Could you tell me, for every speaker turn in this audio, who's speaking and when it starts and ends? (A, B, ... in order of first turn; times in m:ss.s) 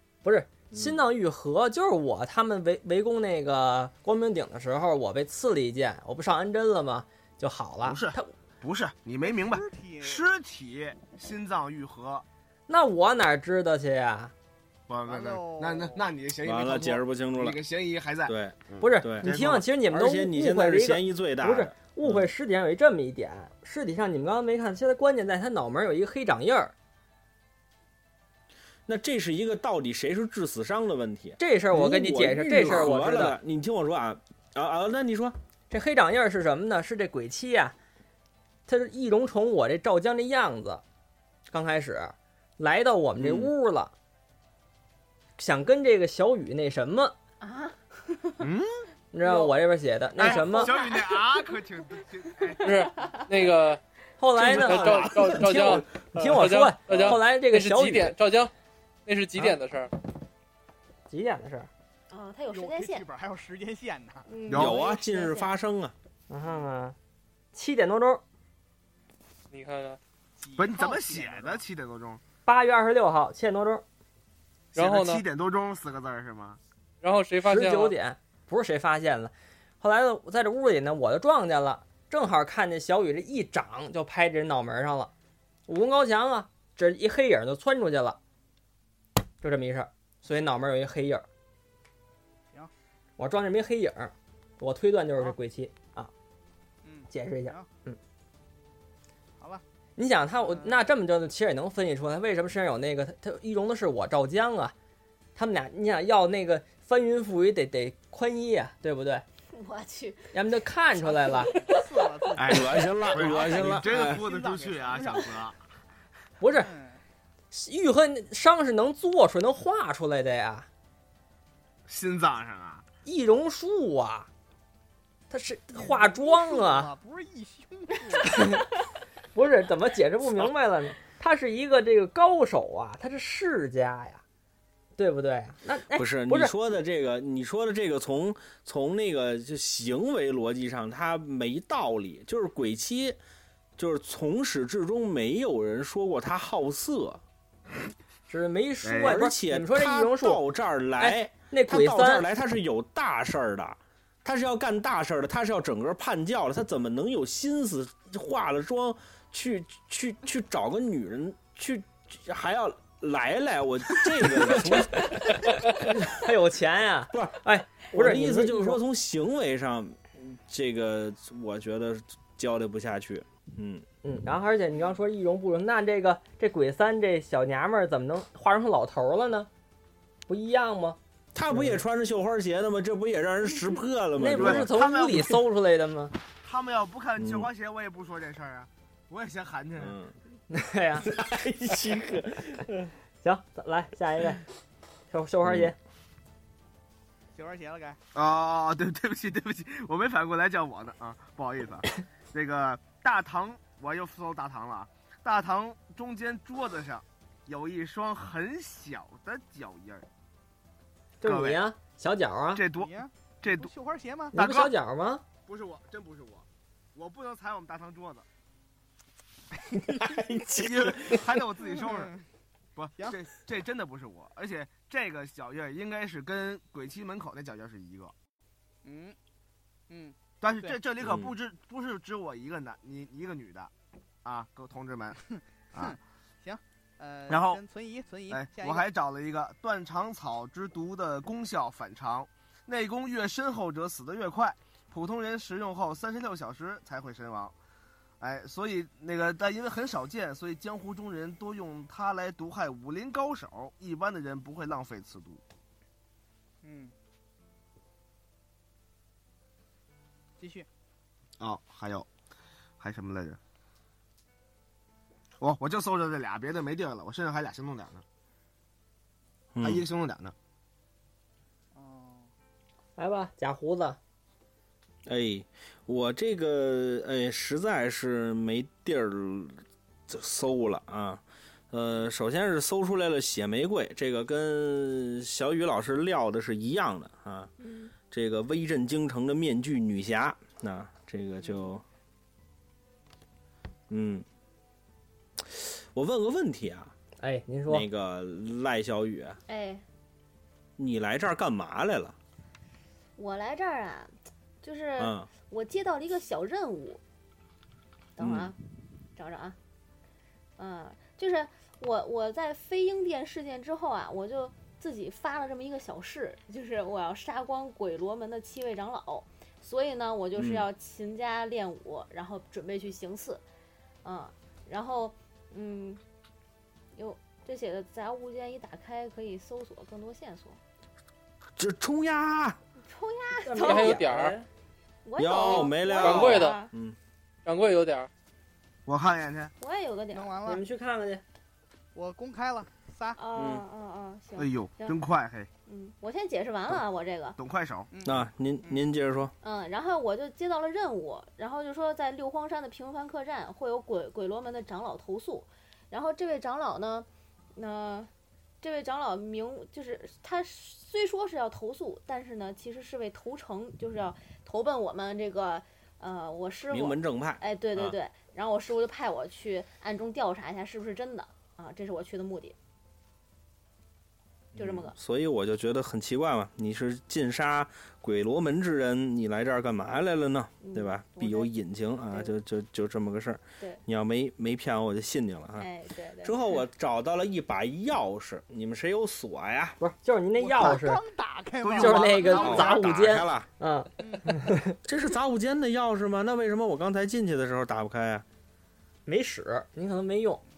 0:00.2-0:08.3 A
0:00.7-0:01.0 B
0:07.8-0:12.2 C
0:09.2-0:10.2 D
0:12.7-0:14.3 A
0:14.9-0:19.7 C
0:15.1-0:16.1 D
0:16.4-0:17.6 B
0:18.3-0:19.3 B
0:18.8-0:26.7 A
0:19.9-0:22.3 B
0:28.9-0:35.4 B
0:31.4-0:33.4 A
0:35.7-0:37.8 A
0:38.7-0:40.8 A
0:41.5-0:43.9 A
0:43.2-0:43.5 B
0:45.4-0:47.1 A
0:47.4-0:48.4 E
0:48.4-0:48.8 C
0:49.1-0:50.8 A
0:50.2-0:52.8 C
0:50.3-0:51.2 E
0:52.6-0:53.2 E
0:52.6-0:53.8 F
0:54.2-0:58.2 A
0:54.4-0:56.4 B
0:54.4-0:58.5 F
0:59.1-0:59.9 F
1:01.1-1:01.7 A
1:02.1-1:03.1 E
1:02.5-1:04.3 D
1:04.3-1:05.5 E
1:04.5-1:04.8 C
1:04.5-1:05.9 B
1:06.3-1:07.0 A
1:06.4-1:06.7 D
1:07.5-1:08.2 A
1:09.5-1:10.0 F
1:10.4-1:11.6 D
1:10.6-1:12.2 C
1:12.4-1:13.8 A
1:14.8-1:15.2 F
1:14.8-1:16.6 C
1:17.0-1:18.0 F
1:17.4-1:25.1 A
1:25.7-1:28.2 A
1:29.4-1:31.2 A
1:33.2-1:36.1 A
1:36.8-1:37.7 D
1:37.1-1:38.0 A
1:40.0-1:44.7 A
1:40.4-1:40.8 D
1:45.4-1:49.2 A
1:49.5-1:50.4 E
1:50.3-1:51.6 A
1:51.0-1:55.4 D
1:51.4-1:51.8 E
1:52.4-1:55.6 C
1:52.5-1:54.2 B
1:56.4-1:56.7 A
1:56.5-1:57.0 D
1:57.5-2:00.7 A
2:01.9-2:02.8 C
2:03.0-2:04.3 A
2:05.3-2:06.9 A
2:05.7-2:08.6 D
2:08.2-2:08.6 A
2:09.3-2:14.2 A
2:15.0-2:16.5 A
2:15.9-2:23.2 B
2:23.8-2:27.2 B
2:28.3-2:30.4 A
2:28.8-2:29.2 C
2:29.0-2:45.3 B
2:31.0-2:32.3 A
2:44.5-2:48.8 A
2:47.1-2:53.9 B
2:54.0-2:59.5 A
3:00.3-3:01.0 A
3:01.3-3:04.7 B
3:01.5-3:01.8 A
3:04.2-3:06.1 A
3:04.3-3:05.4 C
3:06.4-3:10.0 C
3:07.2-3:07.5 B
3:09.8-3:10.2 B
3:10.5-3:11.1 A
3:11.0-3:12.9 B
3:11.9-3:12.6 A
3:13.2-3:14.4 A
3:15.1-3:15.8 A
3:15.4-3:15.7 B
3:17.3-3:18.0 D
3:18.1-3:30.1 C
3:31.2-3:32.6 A
3:31.2-3:31.6 C
3:32.5-3:33.7 C
3:32.7-3:34.4 D
3:34.3-3:34.8 C
3:34.3-3:35.2 A
3:35.4-3:38.3 C
3:39.9-3:41.2 B
3:40.5-3:42.1 C
3:41.6-3:42.2 D
3:42.8-3:48.1 C
3:48.8-3:49.2 D
3:49.9-3:50.8 D
3:50.4-3:53.7 C
3:51.0-3:51.3 B
3:54.2-3:55.2 C
3:55.4-3:58.8 D
3:57.3-3:57.6 C
3:58.3-4:07.6 C
4:08.2-4:15.4 C
4:16.6-4:16.9 D
4:20.4-4:20.7 D
4:21.4-4:22.1 C
4:22.8-4:23.4 C
4:25.4-4:28.0 C
4:29.6-4:29.8 B
4:29.6-4:30.4 C
4:31.7-4:32.3 D
4:33.0-4:34.0 A
4:35.1-4:47.5 B
4:47.6-4:47.9 E
4:48.1-4:51.8 B
4:51.4-4:51.7 D
4:53.9-4:54.3 B
4:55.4-4:56.9 B
4:57.2-4:57.9 A
4:57.7-4:59.4 B
4:59.5-4:59.8 E
5:00.8-5:02.2 B
5:03.2-5:07.0 E
5:05.0-5:05.3 B
5:08.2-5:08.6 E
5:08.2-5:08.5 B
5:09.2-5:09.6 E
5:10.6-5:23.4 E
5:20.4-5:20.6 B
5:24.0-5:26.0 E
5:26.9-5:30.6 E
5:31.6-5:32.6 B
5:32.8-5:34.0 E
5:33.4-5:34.5 A
5:33.6-5:34.4 F
5:35.0-5:36.7 E
5:35.2-5:37.0 B
5:35.5-5:36.6 F
5:37.5-5:38.1 F
5:38.9-5:39.5 C
5:39.6-5:40.4 E
5:40.1-5:40.6 D
5:40.4-5:41.2 A
5:41.9-5:43.2 D
5:43.2-5:45.0 E
5:43.4-5:43.6 B
5:44.4-5:45.5 C
5:45.7-5:47.4 E
5:47.4-5:47.9 C
5:47.9-5:48.8 D
5:48.0-5:49.3 B
5:49.4-5:58.1 E
5:58.6-6:12.6 E
6:06.7-6:08.0 B
6:14.6-6:15.0 E
6:14.6-6:25.7 B
6:20.6-6:21.5 E
6:22.1-6:22.3 E
6:25.6-6:26.4 E
6:26.2-6:29.8 B
6:29.8-6:31.0 A
6:30.4-6:32.7 D
6:31.6-6:32.8 C
6:31.8-6:34.8 A
6:32.4-6:33.5 B
6:34.0-6:34.4 D
6:34.8-6:38.2 B
6:39.1-6:40.4 A